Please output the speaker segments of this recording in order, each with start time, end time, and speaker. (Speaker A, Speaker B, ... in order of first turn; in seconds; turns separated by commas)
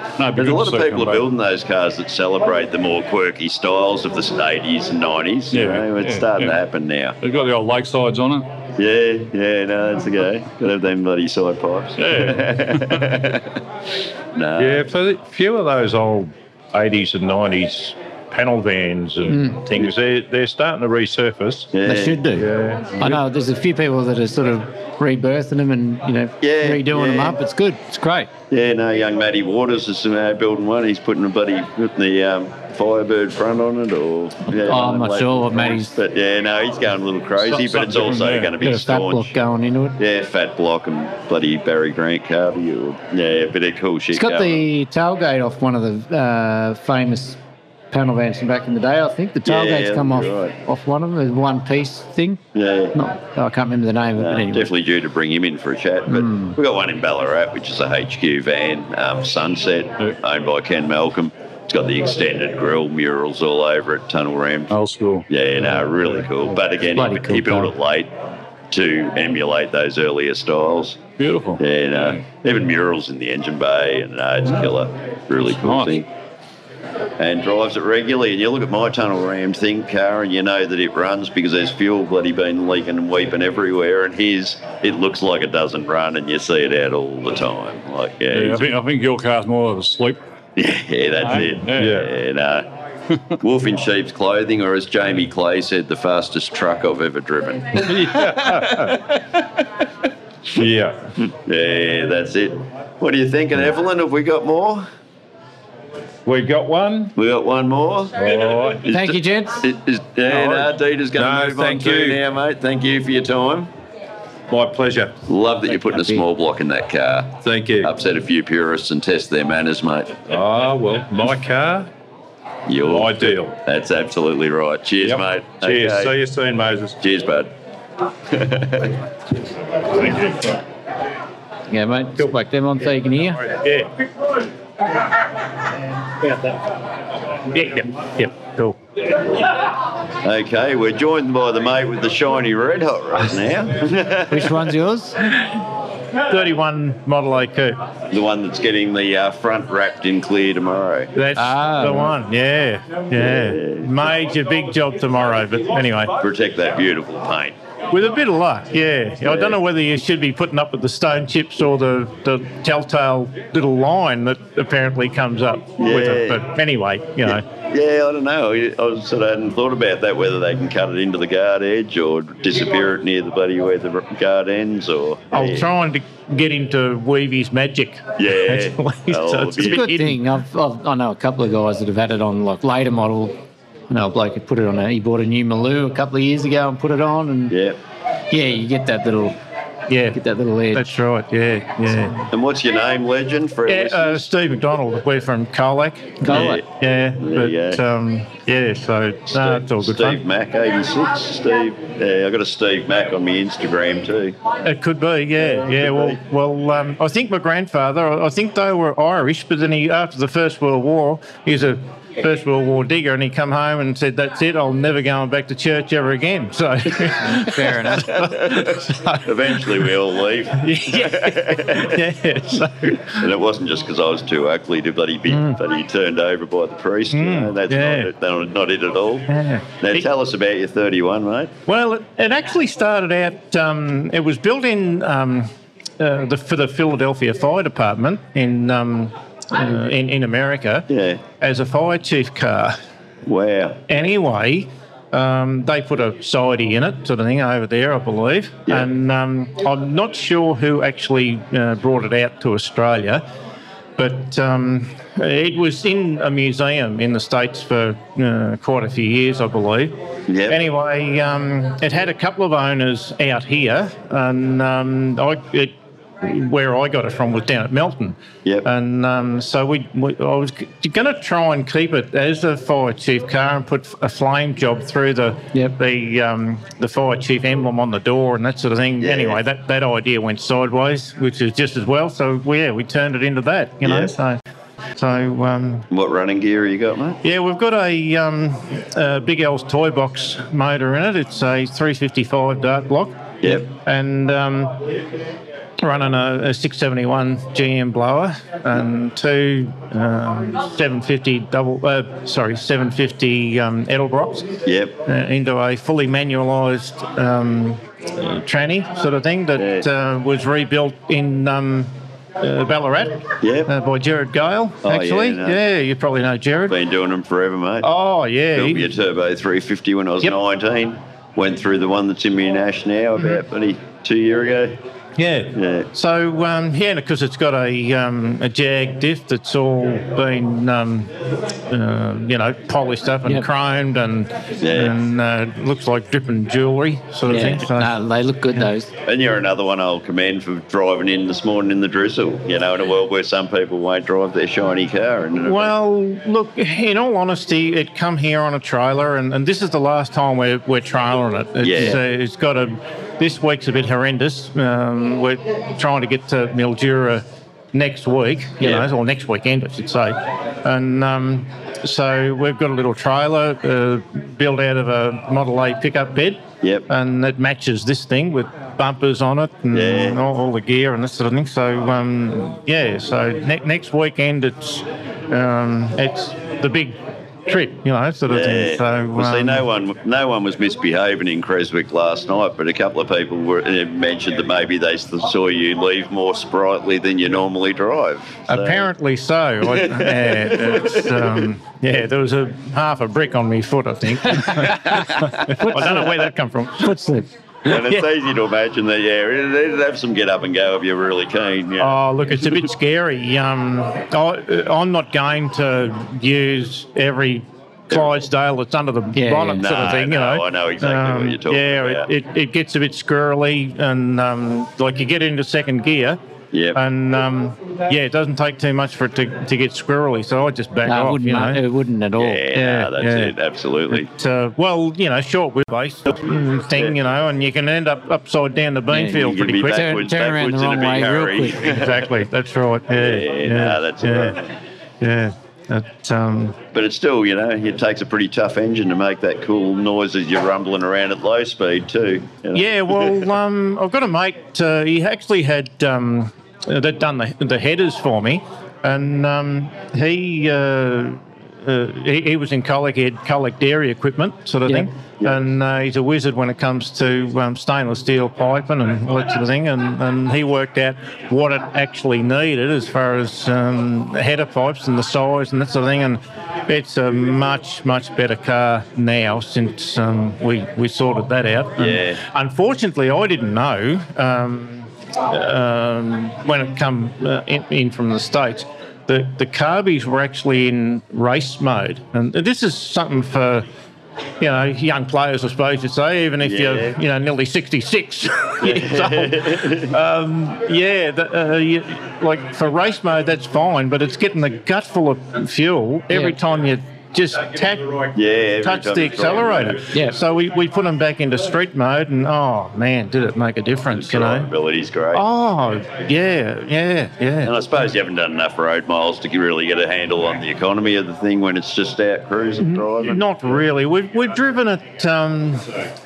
Speaker A: 0.2-1.3, Speaker B: 0.3-7.2, Speaker A: 5.5-6.5, Speaker A: 7.2-8.5, Speaker B: 8.8-13.6, Speaker A: 12.0-12.9, Speaker B: 14.3-14.8, Speaker C: 14.6-21.7, Speaker D: 19.3-19.6, Speaker B: 21.7-22.2, Speaker D: 21.8-28.3, Speaker C: 22.4-23.1, Speaker B: 26.4-27.4, Speaker B: 28.5-39.3, Speaker D: 34.5-35.9, Speaker A: 37.4-38.5, Speaker D: 38.6-40.0, Speaker B: 40.0-44.6, Speaker D: 44.1-47.4, Speaker D: 47.9-52.4, Speaker B: 49.5-50.6, Speaker B: 52.5-53.0, Speaker D: 52.9-54.7, Speaker B: 54.2-64.7, Speaker D: 56.1-56.6, Speaker A: 64.7-65.2, Speaker B: 65.3-68.1, Speaker D: 67.0-67.8, Speaker B: 68.7-71.0, Speaker A: 71.2-72.2, Speaker B: 71.6-76.1, Speaker A: 75.6-76.0, Speaker B: 77.2-88.6, Speaker A: 88.3-90.2, Speaker B: 90.6-92.7, Speaker A: 91.2-92.0, Speaker C: 91.7-92.1, Speaker B: 93.4-99.2, Speaker C: 97.8-98.9, Speaker C: 100.5-101.0, Speaker B: 101.3-104.9, Speaker C: 106.2-107.1, Speaker B: 107.2-108.2, Speaker C: 108.2-108.9, Speaker B: 108.8-113.7, Speaker D: 108.9-109.6, Speaker C: 110.2-112.2, Speaker C: 114.5-115.1, Speaker B: 115.3-120.2, Speaker D: 115.9-116.2, Speaker C: 117.4-117.9, Speaker C: 120.3-121.9, Speaker B: 122.7-126.1, Speaker C: 122.9-123.5, Speaker C: 125.0-127.0, Speaker B: 127.0-127.5, Speaker B: 128.3-128.9, Speaker C: 130.0-130.3, Speaker D: 131.7-133.4, Speaker C: 133.5-133.8, Speaker E: 137.5-138.8, Speaker B: 140.2-144.6, Speaker D: 144.3-145.2, Speaker E: 146.3-147.8, Speaker B: 148.1-151.1, Speaker E: 151.1-156.1, Speaker D: 151.3-152.1, Speaker B: 153.1-154.1, Speaker B: 156.2-157.6, Speaker E: 157.9-167.4, Speaker B: 159.2-159.6, Speaker B: 165.8-166.5, Speaker B: 167.2-175.7, Speaker E: 175.3-180.2, Speaker B: 178.2-179.8, Speaker D: 179.6-183.3, Speaker D: 183.9-187.6, Speaker B: 187.5-187.8, Speaker D: 188.3-189.4, Speaker E: 189.9-190.2, Speaker D: 190.1-190.9, Speaker E: 190.7-192.3, Speaker B: 192.3-194.3, Speaker E: 193.7-200.2, Speaker D: 196.2-196.6, Speaker B: 196.2-196.6, Speaker B: 197.2-197.8, Speaker B: 199.3-204.4, Speaker E: 204.6-219.9, Speaker B: 205.4-206.2, Speaker D: 217.3-218.2, Speaker B: 218.1-222.0, Speaker E: 220.6-223.3, Speaker B: 223.1-229.3, Speaker E: 225.3-225.6, Speaker E: 227.1-228.1, Speaker E: 229.3-230.1, Speaker B: 229.8-231.5, Speaker E: 231.7-240.8, Speaker B: 240.9-241.2, Speaker E: 241.4-242.8, Speaker B: 243.2-243.8, Speaker E: 243.9-253.2, Speaker E: 254.0-259.9, Speaker B: 260.3-260.6, Speaker E: 260.5-284.4, Speaker B: 279.0-279.4, Speaker B: 283.8-284.1, Speaker E: 285.0-285.9, Speaker B: 285.9-287.2, Speaker E: 287.2-294.8, Speaker E: 295.8-304.5, Speaker B: 304.6-305.0, Speaker E: 305.1-316.8, Speaker B: 309.6-309.9, Speaker B: 313.4-313.7, Speaker B: 314.8-315.6, Speaker B: 316.7-317.9, Speaker E: 317.8-318.9, Speaker B: 318.5-324.8, Speaker E: 325.2-331.1, Speaker B: 325.5-325.9, Speaker E: 331.7-337.9, Speaker B: 334.6-334.9, Speaker D: 337.2-338.9, Speaker B: 339.1-345.7, Speaker E: 345.4-379.6, Speaker B: 351.6-352.0, Speaker B: 358.6-358.9, Speaker B: 369.7-370.2, Speaker B: 378.3-388.9, Speaker E: 388.5-396.9, Speaker B: 389.7-391.4, Speaker D: 395.6-396.1, Speaker D: 396.8-397.3, Speaker B: 397.6-402.6, Speaker E: 397.7-398.1, Speaker E: 401.8-416.2, Speaker D: 409.1-409.6, Speaker B: 409.6-412.1, Speaker B: 416.5-416.8, Speaker E: 416.7-421.6, Speaker D: 420.8-422.4, Speaker B: 422.2-424.1, Speaker E: 422.5-423.3, Speaker E: 423.9-429.9, Speaker D: 428.9-431.6, Speaker B: 429.1-432.1, Speaker E: 431.6-434.4, Speaker B: 432.9-434.5, Speaker E: 435.0-436.6, Speaker B: 436.7-443.2, Speaker E: 442.5-483.6, Speaker B: 455.2-455.5, Speaker B: 471.8-472.2, Speaker E: 484.4-504.5, Speaker B: 486.4-486.9, Speaker B: 488.6-489.9, Speaker B: 498.1-499.8, Speaker B: 503.9-505.2, Speaker E: 505.1-507.5, Speaker B: 507.4-513.2, Speaker E: 512.6-515.7